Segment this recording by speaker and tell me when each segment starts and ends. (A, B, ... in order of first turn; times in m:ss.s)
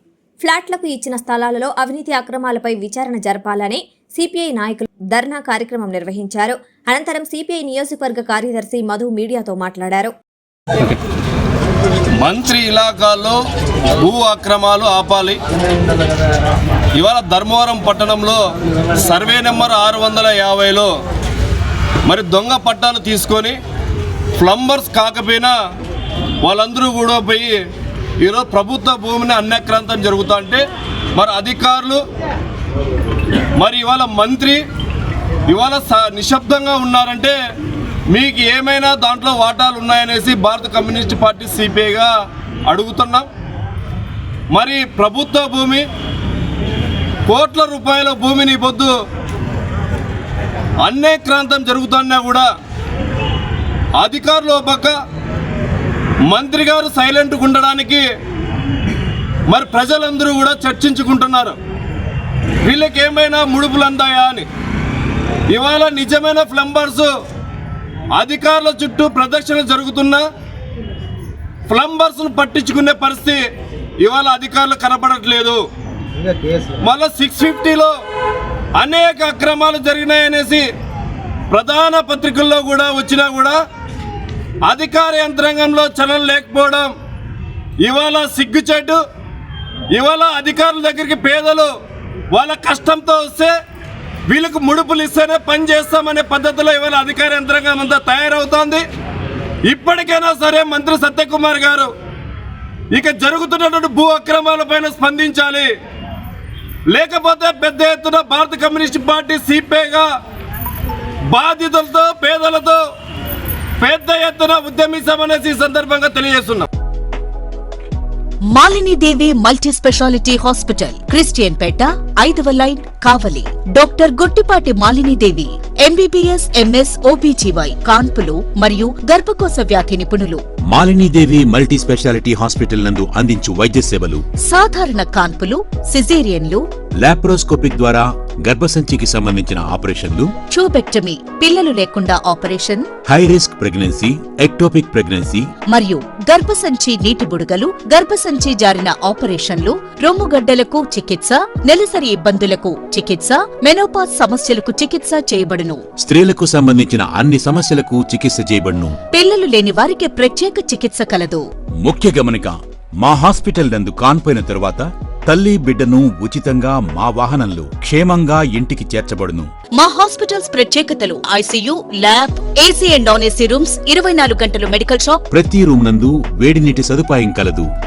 0:00.4-0:10.1 A
0:12.2-0:13.4 B
0:14.0-0:15.4 B
0:17.0-0:18.4 B
0:18.9-0:20.9 B
0:22.1-0:23.6 B
0:24.4-0:25.6 B
0:26.4-0:27.6 B
0:28.2-0:30.6 B
0:31.2-0:32.0 B
0:33.6-0:34.6 B
0:35.5-0:37.4 B
0:38.1-0:42.1 B
0:42.7-0:43.3 B
0:44.5-0:45.8 B
0:47.3-0:48.9 B
0:50.8-0:52.5 B
0:54.0-0:55.0 B
0:56.3-0:58.1 B
0:59.5-1:01.6 B
1:02.6-1:04.5 B
1:05.5-1:07.1 B
1:08.1-1:10.2 B
1:11.7-1:13.4 B
1:14.0-1:15.6 B
1:16.8-1:18.0 B
1:18.8-1:20.7 B
1:21.5-1:23.6 B
1:24.6-1:26.9 B
1:27.8-1:29.0 B
1:29.9-1:31.7 B
1:32.3-1:33.5 B
1:34.3-1:38.8 B
1:39.7-1:41.9 B
1:42.9-1:45.7 B
1:46.9-1:50.1 B
1:51.3-1:52.8 B
1:53.8-1:56.7 B
1:58.5-2:10.4 C
2:10.7-2:14.2 D
2:14.4-2:16.6 C
2:17.0-2:20.4 D
2:20.5-2:22.9 C
2:23.1-2:25.5 D
2:25.7-2:35.8 C
2:36.0-2:39.0 D
2:39.1-2:41.4 C
2:41.8-2:49.5 D
2:49.8-2:55.2 C
2:55.3-2:57.7 D